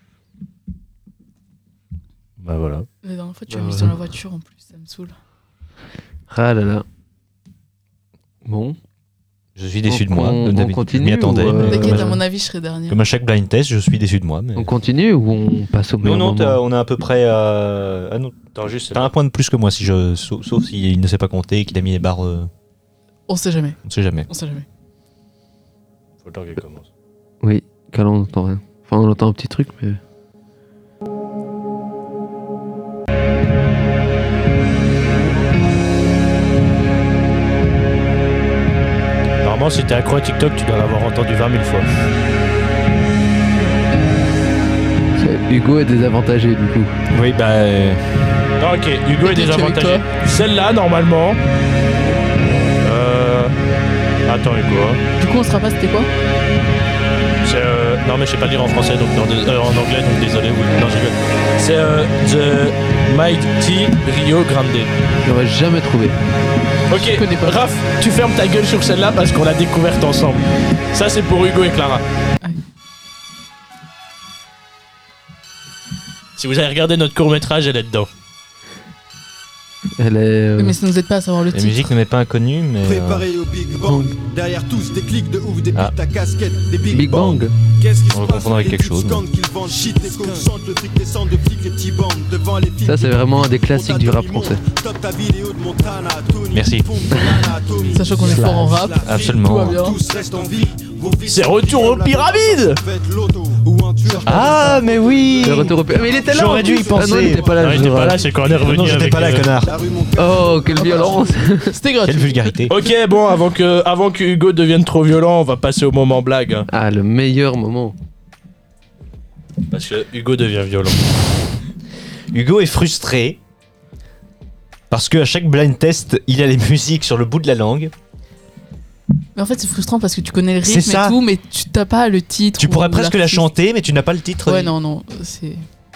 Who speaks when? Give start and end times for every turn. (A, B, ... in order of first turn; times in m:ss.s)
0:02.4-0:02.9 A
0:03.0-0:05.1 B
0:03.5-0:04.0 C
0:06.3-0:06.8 C
0:08.4-0:08.8 C
0:09.6-0:12.2 D
0:09.9-0:12.2 C
0:11.6-0:13.0 B
0:12.9-0:14.7 D
0:14.6-0:16.6 C
0:16.0-0:22.5 D
0:18.5-0:19.1 A
0:23.3-0:24.6 B
0:23.9-0:24.3 D
0:26.2-0:26.9 A
0:27.4-0:30.0 C
0:39.4-0:41.8 A
0:45.2-0:46.9 C
0:47.1-0:48.0 D
0:48.6-0:51.4 A
0:49.2-0:50.0 B
0:52.8-0:53.5 A
0:54.3-0:55.0 A
0:55.2-0:56.1 B
0:57.4-1:04.9 A
1:05.2-1:06.2 C
1:06.9-1:12.0 A
1:07.0-1:07.6 B
1:16.4-1:18.1 A
1:20.0-1:20.8 C
1:20.6-1:21.9 B
1:21.5-1:23.2 D
1:22.8-1:51.3 E
1:23.8-1:24.1 C
1:26.9-1:27.5 C
1:27.0-1:27.4 D
1:28.1-1:29.2 D
1:32.8-1:34.6 C
1:36.5-1:36.9 D
1:37.9-1:40.0 B
1:38.2-1:38.6 C
1:39.0-1:39.9 D
1:41.3-1:42.8 A
1:44.2-1:47.8 D
1:45.4-1:48.2 C
1:47.6-1:49.5 A
1:48.5-1:49.7 D
1:50.2-1:51.7 C
1:50.8-1:52.7 B
1:52.0-1:52.7 D
1:52.7-1:56.7 A
1:56.7-1:57.9 C
1:59.7-2:01.3 A
2:02.3-2:03.4 D
2:04.9-2:07.9 D
2:09.4-2:13.4 B
2:10.6-2:11.2 D
2:12.6-2:14.7 D
2:14.4-2:15.6 B